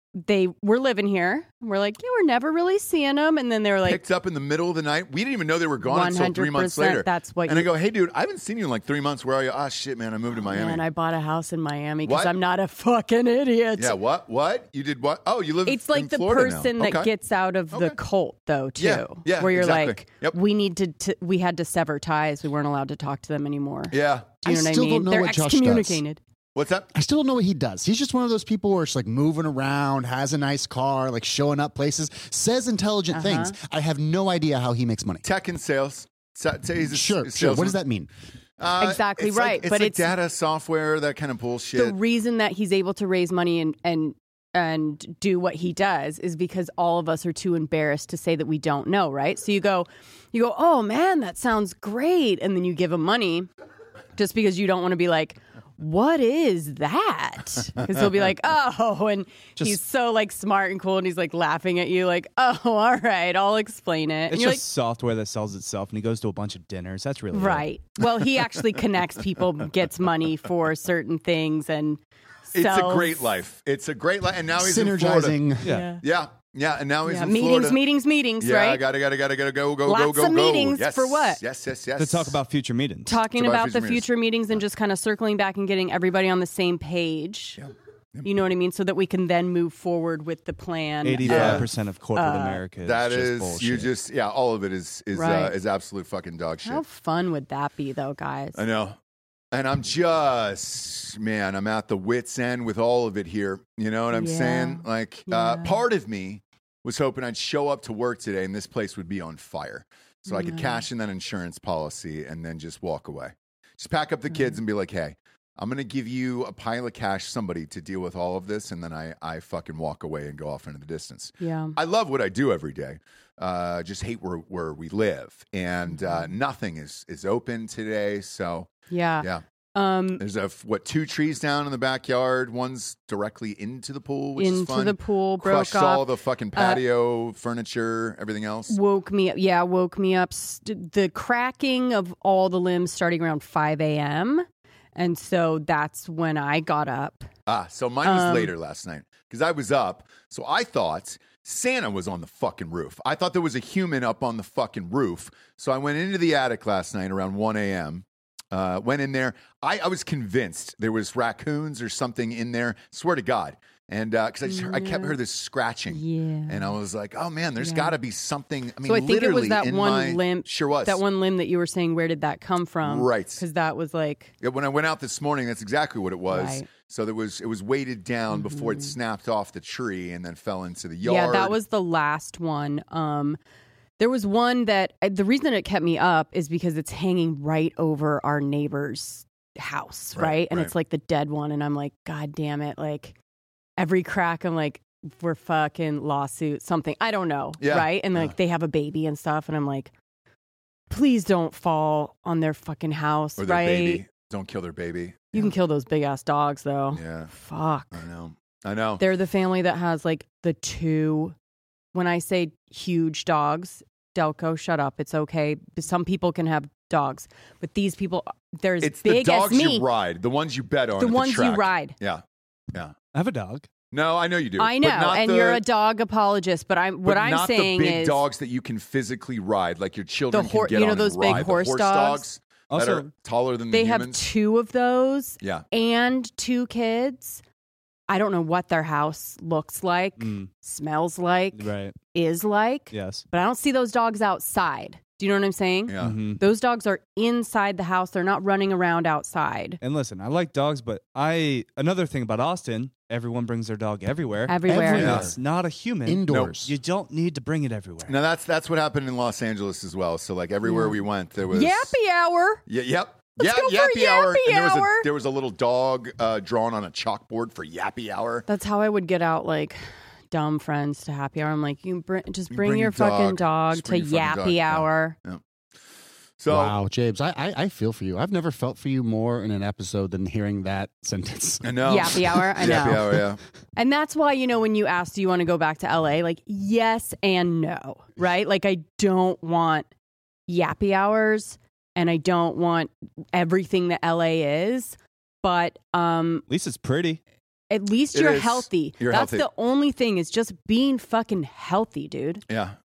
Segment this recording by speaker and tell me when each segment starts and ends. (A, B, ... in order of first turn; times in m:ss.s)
0:00.2-0:04.0 A
0:03.8-0:10.8 B
0:05.8-0:07.7 A
0:10.5-0:14.0 A
0:12.0-0:12.3 B
0:13.8-0:17.1 B
0:15.6-0:26.2 A
0:18.8-0:20.4 B
0:23.9-0:24.3 B
0:24.4-0:26.0 C
0:26.5-0:26.9 B
0:26.9-0:35.2 C
0:33.1-0:33.5 A
0:35.2-0:37.8 B
0:36.8-0:38.1 C
0:38.6-0:42.0 B
0:38.8-0:40.1 A
0:41.7-0:53.5 A
0:54.2-1:04.6 A
1:04.3-1:07.6 D
1:07.3-1:12.0 A
1:12.5-1:13.3 A
1:12.5-1:15.4 B
1:14.6-1:15.7 C
1:15.6-1:15.9 D
1:15.6-1:16.0 A
1:16.0-1:17.8 B
1:17.0-1:18.8 A
1:18.4-1:22.4 B
1:19.8-1:21.4 A
1:22.0-1:23.2 D
1:23.0-1:27.6 A
1:23.3-1:24.1 B
1:27.6-1:28.3 B
1:28.2-1:32.6 A
1:31.0-1:33.9 D
1:31.2-1:31.7 B
1:32.8-1:36.8 B
1:35.1-1:35.6 A
1:36.6-1:38.6 A
1:38.5-1:39.0 B
1:39.5-2:09.4 B
1:44.1-1:45.8 A
1:50.3-1:50.8 A
1:54.3-1:54.6 A
2:01.4-2:01.8 A
2:05.9-2:06.3 A
2:08.9-2:10.2 A
2:10.2-2:18.8 B
2:14.4-2:16.8 A
2:18.7-2:27.3 A
2:27.5-2:51.0 B
2:28.0-2:28.5 A
2:44.4-2:45.2 A
2:45.9-2:46.7 A
2:47.6-2:47.9 A
2:48.8-2:54.3 A
2:52.8-2:53.4 B
2:54.4-3:01.6 B
2:56.3-2:56.6 A
2:58.3-2:59.0 A
3:01.0-3:03.4 A
3:04.0-3:13.2 A
3:10.1-3:10.7 B
3:13.8-3:19.9 A
3:17.6-3:18.3 B
3:20.9-3:24.0 A
3:23.4-3:25.5 B
3:25.3-3:28.0 A
3:26.9-3:27.3 B
3:27.9-3:29.0 B
3:29.0-3:31.3 A
3:31.9-3:39.9 A
3:38.8-3:42.9 B
3:41.0-3:42.0 A
3:43.1-3:43.7 D
3:43.9-3:45.6 B
3:44.6-3:48.2 A
3:47.0-3:54.2 B
3:50.3-3:52.2 A
3:52.7-3:53.1 D
3:53.7-3:57.4 A
3:58.1-4:09.8 A
4:00.2-4:00.5 D
4:01.5-4:02.0 D
4:02.9-4:03.2 D
4:05.9-4:06.2 B
4:06.0-4:06.4 D
4:09.8-4:18.2 D
4:14.5-4:15.2 A
4:14.7-4:15.4 C
4:15.0-4:15.3 B
4:16.0-4:16.7 C
4:18.0-4:21.9 B
4:20.6-4:22.6 A
4:22.6-4:28.4 B
4:23.4-4:25.1 A
4:28.5-4:35.2 A
4:32.5-4:35.4 B
4:36.4-4:36.7 B
4:36.5-4:43.0 C
4:41.6-4:43.4 B
4:41.8-4:43.2 A
4:43.8-4:49.9 A
4:50.5-4:56.4 A
4:56.5-4:57.2 D
4:57.7-5:02.4 A
4:58.1-4:59.4 B
5:02.5-5:02.8 B